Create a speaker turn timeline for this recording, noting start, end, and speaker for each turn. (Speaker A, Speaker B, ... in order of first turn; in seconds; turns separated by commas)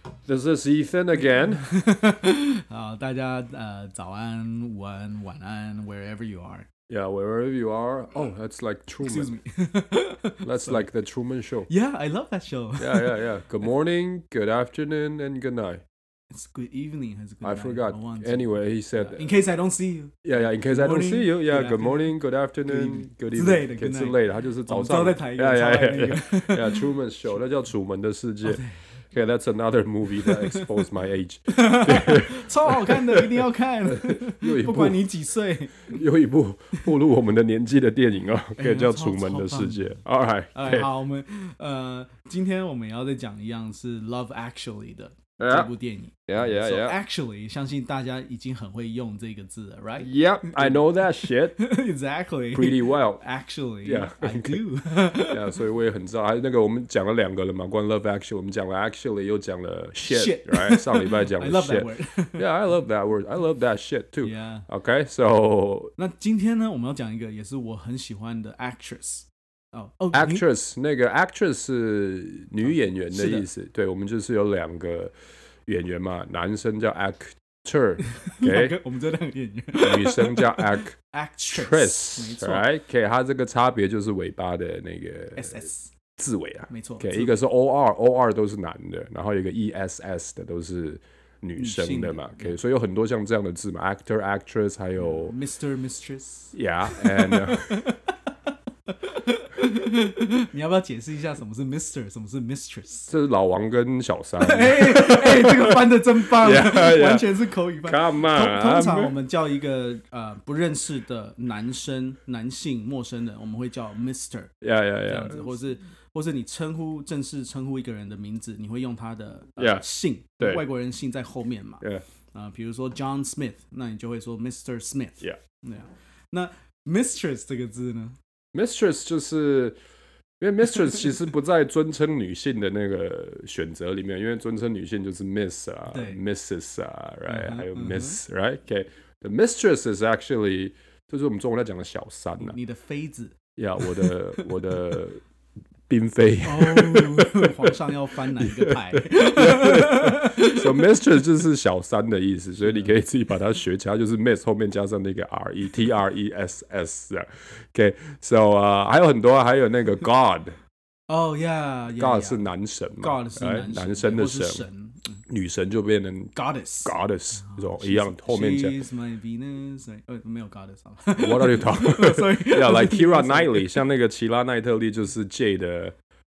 Speaker A: 0.2-1.7, Speaker B: 1.6-6.7, Speaker A: 6.9-9.3, Speaker B: 9.0-10.9, Speaker A: 10.4-11.7, Speaker B: 11.7-13.2, Speaker A: 12.8-15.8, Speaker B: 16.3-26.9, Speaker A: 17.4-19.3, Speaker A: 20.2-35.1, Speaker B: 28.4-28.8, Speaker B: 30.2-30.8, Speaker B: 31.5-36.0, Speaker A: 35.9-40.9, Speaker B: 38.6-40.0, Speaker B: 40.5-55.6, Speaker A: 45.4-45.7, Speaker A: 46.3-47.0, Speaker A: 50.0-51.6, Speaker A: 52.5-53.2, Speaker A: 53.8-65.9, Speaker B: 60.0-62.5, Speaker B: 64.2-64.7, Speaker B: 66.0-70.4, Speaker A: 70.1-75.1, Speaker B: 72.6-73.5, Speaker A: 75.7-78.8, Speaker B: 78.1-82.7, Speaker A: 79.8-81.0, Speaker A: 81.5-95.3, Speaker B: 85.3-85.9, Speaker B: 86.7-87.3, Speaker B: 91.5-92.6, Speaker B: 95.0-98.1, Speaker A: 96.5-97.8, Speaker B: 98.9-103.1, Speaker A: 103.1-107.3, Speaker B: 104.4-128.2, Speaker A: 107.8-109.1, Speaker A: 114.6-115.5, Speaker A: 119.6-119.8, Speaker A: 128.5-129.8, Speaker A: 130.4-142.6, Speaker B: 135.9-136.2, Speaker B: 137.3-138.2, Speaker B: 142.4-144.5, Speaker A: 143.6-145.2, Speaker A: 145.9-147.8, Speaker B: 146.4-150.8, Speaker A: 148.3-160.6, Speaker B: 152.6-153.0, Speaker B: 161.1-165.2, Speaker A: 161.9-164.7, Speaker A: 165.3-168.8, Speaker B: 166.3-173.8, Speaker A: 171.2-175.9